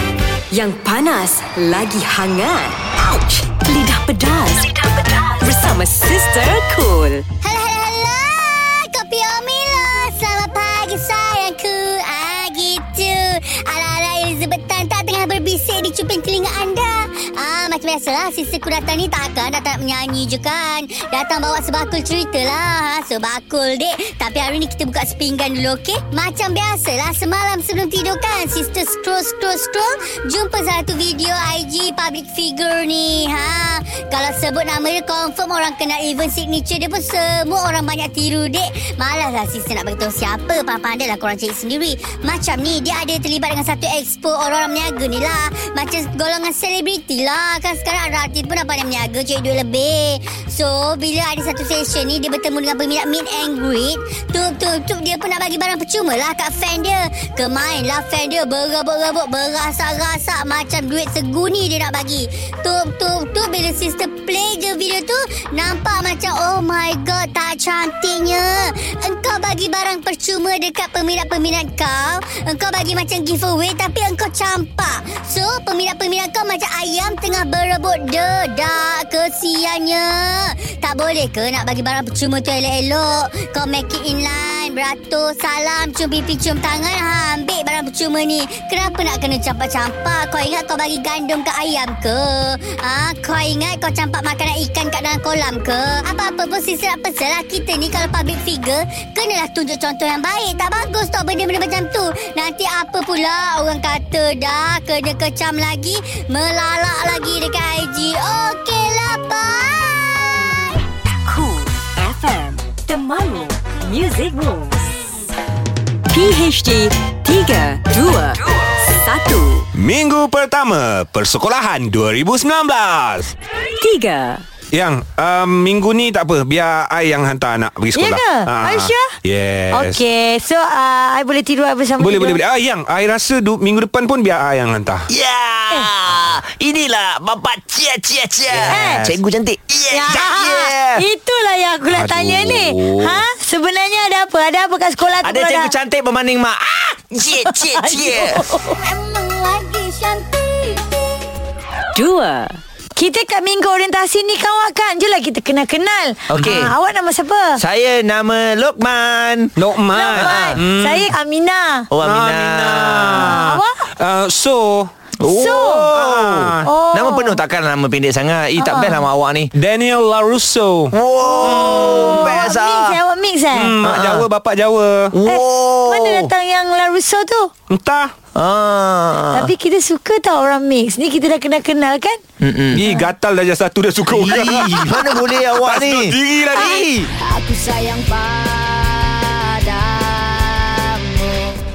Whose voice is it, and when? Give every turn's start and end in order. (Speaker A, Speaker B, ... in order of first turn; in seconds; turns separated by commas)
Speaker A: 0.5-7.2, Speaker B: 7.4-110.8, Speaker A: 111.2-114.9, Speaker A: 116.1-119.7, Speaker C: 119.7-123.3, Speaker A: 123.8-124.4, Speaker C: 124.7-130.0, Speaker D: 127.9-129.1, Speaker D: 129.7-132.4, Speaker C: 132.0-135.1, Speaker E: 135.1-141.0, Speaker D: 138.6-139.1, Speaker D: 139.9-145.7, Speaker C: 141.9-143.2, Speaker E: 145.2-148.5, Speaker D: 147.4-148.8, Speaker A: 151.9-152.6, Speaker D: 152.9-157.6, Speaker E: 156.3-156.7, Speaker E: 157.6-159.5, Speaker C: 159.6-161.1, Speaker D: 159.9-161.9, Speaker E: 160.1-160.6, Speaker E: 161.9-163.4, Speaker C: 162.0-164.9, Speaker D: 163.2-163.9, Speaker E: 165.2-169.5, Speaker D: 165.2-165.9, Speaker C: 165.7-166.7, Speaker D: 166.6-167.4, Speaker D: 168.6-169.0, Speaker C: 169.6-172.5, Speaker E: 170.9-173.0, Speaker D: 171.2-173.8, Speaker C: 173.5-175.1, Speaker E: 173.8-174.3, Speaker E: 175.1-176.3, Speaker D: 175.2-177.5, Speaker C: 177.7-178.1, Speaker E: 178.3-179.5, Speaker D: 179.3-182.2, Speaker E: 182.4-182.8, Speaker C: 182.7-186.8, Speaker E: 184.1-187.1